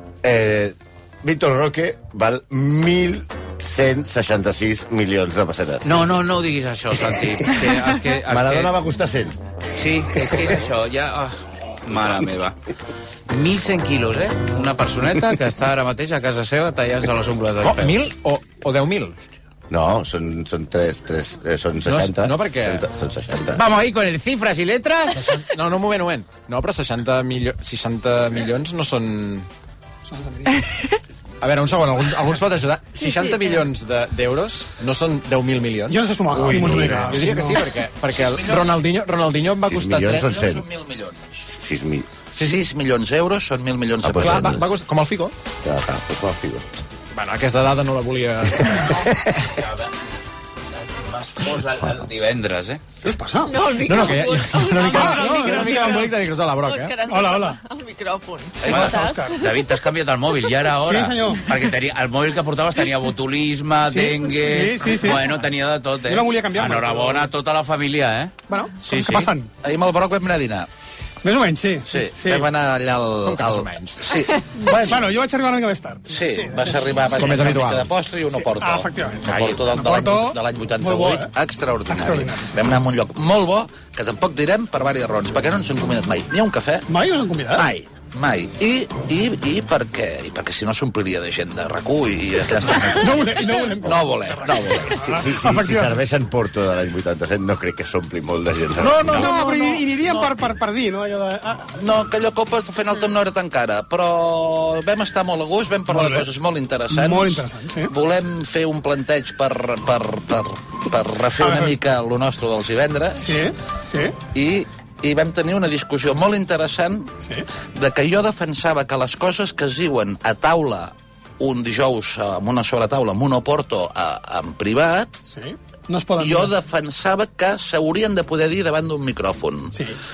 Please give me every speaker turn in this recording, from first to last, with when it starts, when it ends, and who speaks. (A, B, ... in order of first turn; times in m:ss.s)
0:00.2-0:06.1 A
0:05.8-0:08.8 B
0:07.2-0:09.4 A
0:09.8-0:12.6 B
0:10.1-0:10.5 A
0:13.3-0:18.1 B
0:17.6-0:19.2 C
0:19.7-0:23.6 A
0:21.8-0:22.8 C
0:23.5-0:25.3 B
0:25.2-0:29.5 C
0:30.1-0:30.6 D
0:31.4-0:40.3 C
0:35.9-0:37.6 D
0:36.4-0:37.2 A
0:38.1-0:38.8 E
0:39.6-0:40.6 A
0:40.1-0:41.4 E
0:41.4-0:42.1 A
0:42.4-0:44.6 E
0:44.0-0:44.6 A
0:44.1-0:45.3 C
0:45.6-0:46.7 A
0:47.1-0:49.5 C
0:51.0-0:52.8 B
0:53.0-0:53.8 D
0:53.5-0:55.9 F
0:53.8-0:57.0 C
0:54.8-0:56.0 D
0:56.7-0:59.4 F
0:57.1-0:57.6 D
0:58.6-0:58.9 E
0:58.6-0:59.3 D
0:58.7-1:08.3 B
1:00.8-1:01.5 D
1:03.9-1:05.4 D
1:06.0-1:07.3 D
1:08.5-1:09.5 D
1:08.8-1:09.3 B
1:09.6-1:10.7 E
1:11.2-1:12.5 D
1:11.9-1:15.1 E
1:13.2-1:14.0 C
1:14.6-1:17.4 D
1:16.1-1:26.9 E
1:17.2-1:17.9 C
1:18.3-1:21.3 D
1:21.9-1:22.8 D
1:26.9-1:27.7 D
1:27.5-1:35.2 E
1:32.7-1:36.0 D
1:35.0-1:39.1 A
1:38.8-1:40.3 E
1:39.1-1:41.7 D
1:41.8-1:53.4 E
1:45.9-1:46.3 D
1:46.9-1:47.9 D
1:51.4-1:51.7 D
1:53.2-1:54.2 D
1:54.3-1:57.1 E
1:57.8-2:05.2 E
2:05.3-2:06.5 D
2:06.2-2:09.8 E